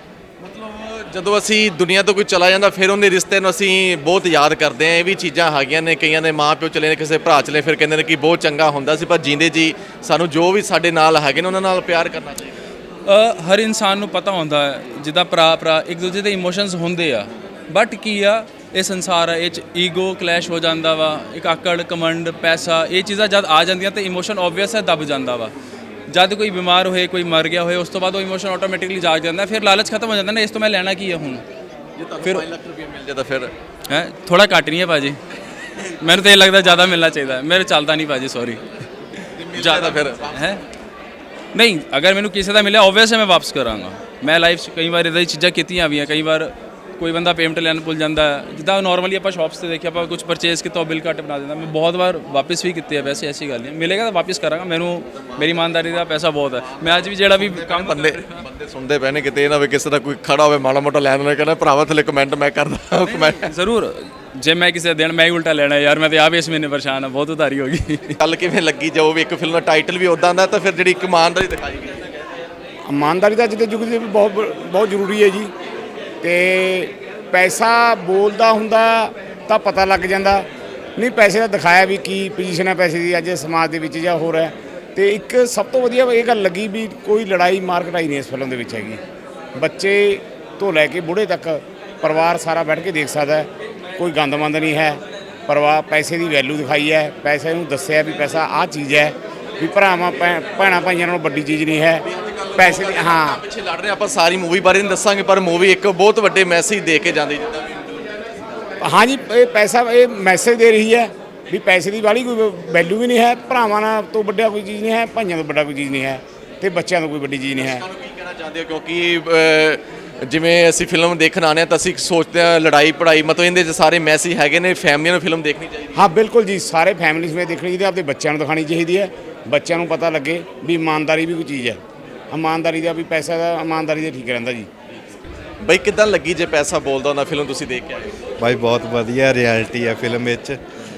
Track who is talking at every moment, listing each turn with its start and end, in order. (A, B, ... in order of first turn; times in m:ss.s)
0:00.4-0:12.6 A
0:13.0-0:25.5 B
0:26.1-0:31.4 B
0:32.0-0:33.5 A
0:33.9-0:35.2 B
0:35.8-0:38.6 B
0:39.4-0:40.6 A
0:39.5-0:40.6 B
0:41.5-0:58.4 B
0:55.1-1:03.5 A
1:03.1-1:08.2 B
1:08.2-1:12.0 A
1:12.8-1:15.5 C
1:16.2-1:29.0 C
1:29.6-1:42.0 C
1:42.0-1:48.1 A
1:42.5-1:43.4 C
1:48.8-1:57.8 C
1:57.6-2:06.1 A
2:06.0-2:11.8 C
2:12.3-2:14.7 C
2:15.6-2:18.1 A
2:18.4-2:20.6 D